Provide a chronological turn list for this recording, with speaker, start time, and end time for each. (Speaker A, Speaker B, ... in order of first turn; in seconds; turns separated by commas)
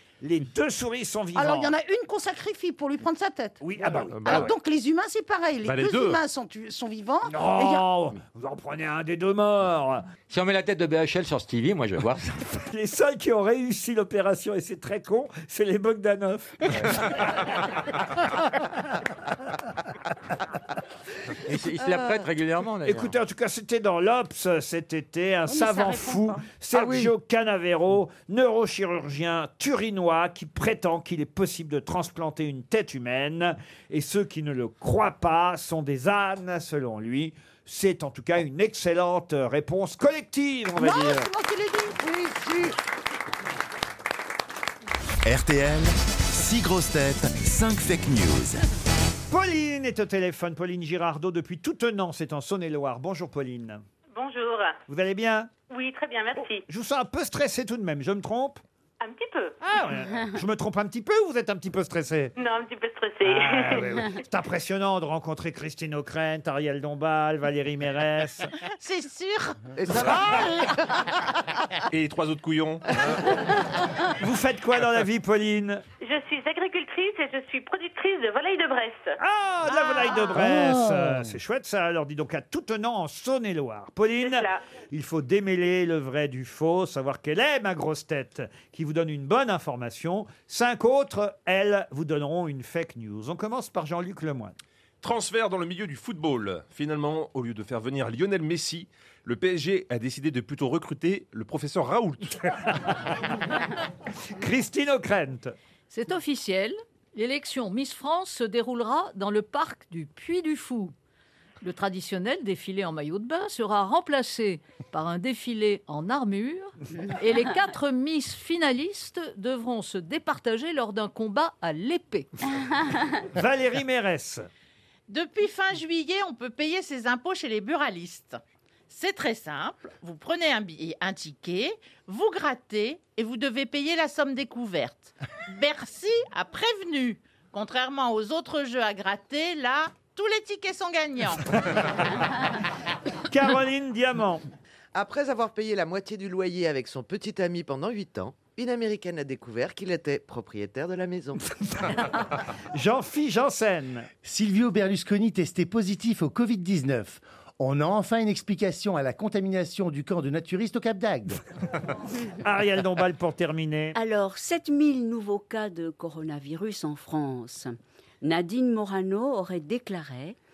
Speaker A: 0.2-1.7, Speaker B: 1.4-7.9, Speaker A: 3.6-4.5, Speaker C: 4.1-4.5, Speaker C: 5.6-6.2, Speaker A: 7.3-10.1, Speaker D: 10.3-12.4, Speaker A: 12.5-17.2, Speaker D: 21.5-23.1, Speaker A: 22.9-41.3, Speaker B: 25.5-26.4, Speaker E: 26.7-27.1, Speaker B: 40.8-42.0, Speaker E: 41.9-42.7, Speaker F: 45.2-48.6, Speaker A: 49.3-53.8, Speaker G: 54.1-54.8, Speaker A: 54.9-55.5, Speaker G: 55.7-56.6, Speaker A: 56.7-58.6, Speaker G: 59.0-59.6, Speaker A: 59.6-62.3, Speaker G: 62.4-63.8, Speaker A: 63.2-68.5, Speaker H: 68.8-69.6, Speaker E: 69.8-71.1, Speaker C: 71.9-73.2, Speaker A: 74.2-75.8, Speaker G: 76.0-79.2, Speaker A: 79.2-94.5, Speaker I: 80.4-81.3, Speaker G: 84.2-84.6, Speaker C: 95.0-102.3, Speaker A: 104.4-105.5, Speaker J: 105.9-110.9, Speaker J: 111.6-122.3, Speaker A: 123.3-124.5, Speaker H: 125.1-141.7, Speaker A: 143.3-144.4, Speaker E: 144.9-151.4, Speaker A: 152.7-154.1, Speaker I: 154.2-161.4, Speaker A: 162.4-164.0, Speaker K: 163.9-170.4